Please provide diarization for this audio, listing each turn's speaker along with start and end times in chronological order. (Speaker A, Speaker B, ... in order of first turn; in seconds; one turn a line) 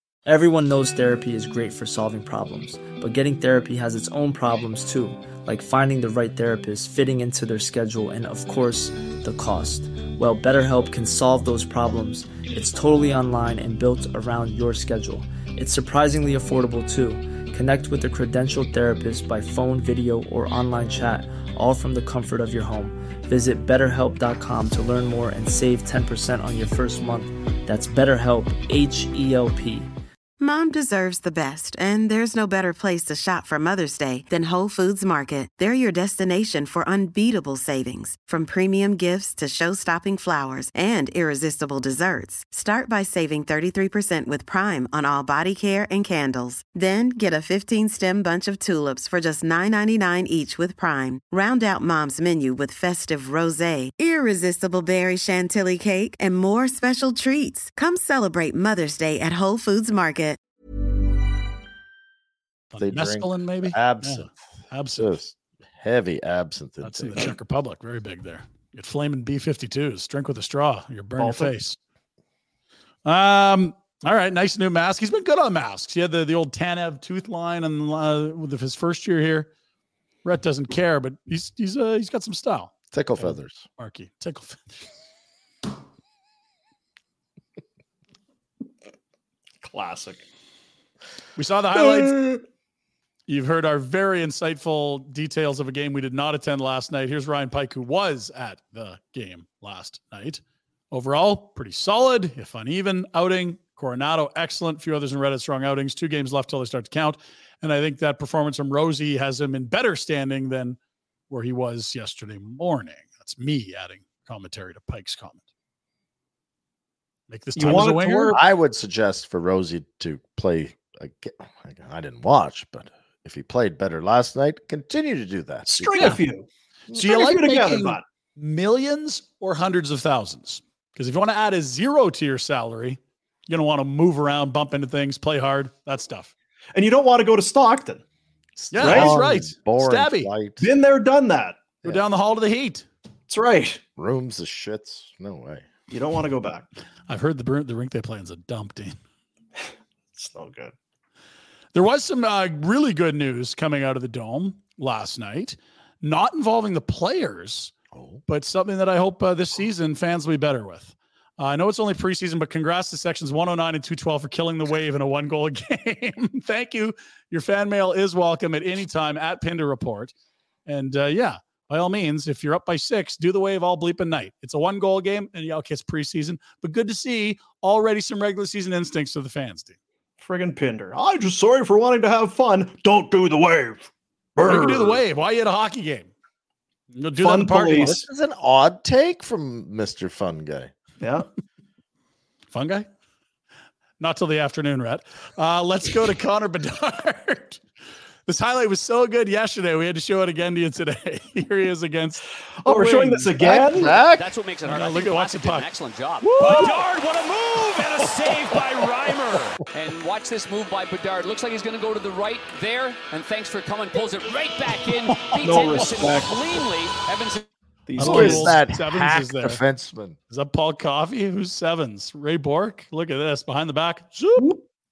Speaker A: 0.3-29.9
Speaker B: 30.4-60.4
Speaker C: 62.7-65.2
Speaker D: 62.8-64.4
Speaker D: 64.9-67.3
Speaker C: 66.8-71.8
Speaker E: 71.2-71.5
Speaker C: 73.0-79.5
Speaker C: 80.2-84.6
Speaker D: 82.9-83.7
Speaker E: 89.6-90.2
Speaker C: 91.4-92.4
Speaker E: 91.8-92.3
Speaker C: 93.3-110.8
Speaker C: 111.3-115.4
Speaker C: 117.3-118.4
Speaker E: 117.5-118.4
Speaker D: 117.6-126.2
Speaker E: 125.7-128.0
Speaker C: 126.0-126.2
Speaker C: 126.9-136.3
Speaker E: 136.7-138.0
Speaker D: 138.6-140.7
Speaker C: 138.7-140.3
Speaker E: 138.8-139.2
Speaker E: 140.6-141.8
Speaker C: 141.8-142.9
Speaker E: 143.3-143.8
Speaker D: 144.0-145.7
Speaker E: 145.9-146.7
Speaker C: 147.1-149.0
Speaker E: 149.6-150.7
Speaker C: 151.7-157.7
Speaker D: 157.9-158.2
Speaker C: 158.3-170.1
Speaker C: 170.7-179.8
Speaker E: 180.2-185.0
Speaker C: 184.4-186.1
Speaker C: 186.9-188.0
Speaker E: 187.2-188.0
Speaker D: 187.8-190.7
Speaker E: 191.0-191.3
Speaker C: 192.5-192.9
Speaker C: 194.0-197.6
Speaker C: 198.3-203.4
Speaker E: 202.7-204.0
Speaker D: 203.4-204.3
Speaker F: 204.0-217.5
Speaker C: 204.7-205.7
Speaker E: 206.3-206.8
Speaker C: 206.4-206.8
Speaker C: 215.2-215.9
Speaker E: 215.4-216.4
Speaker E: 217.9-218.6
Speaker C: 218.0-219.6
Speaker D: 218.0-220.2
Speaker C: 220.3-224.5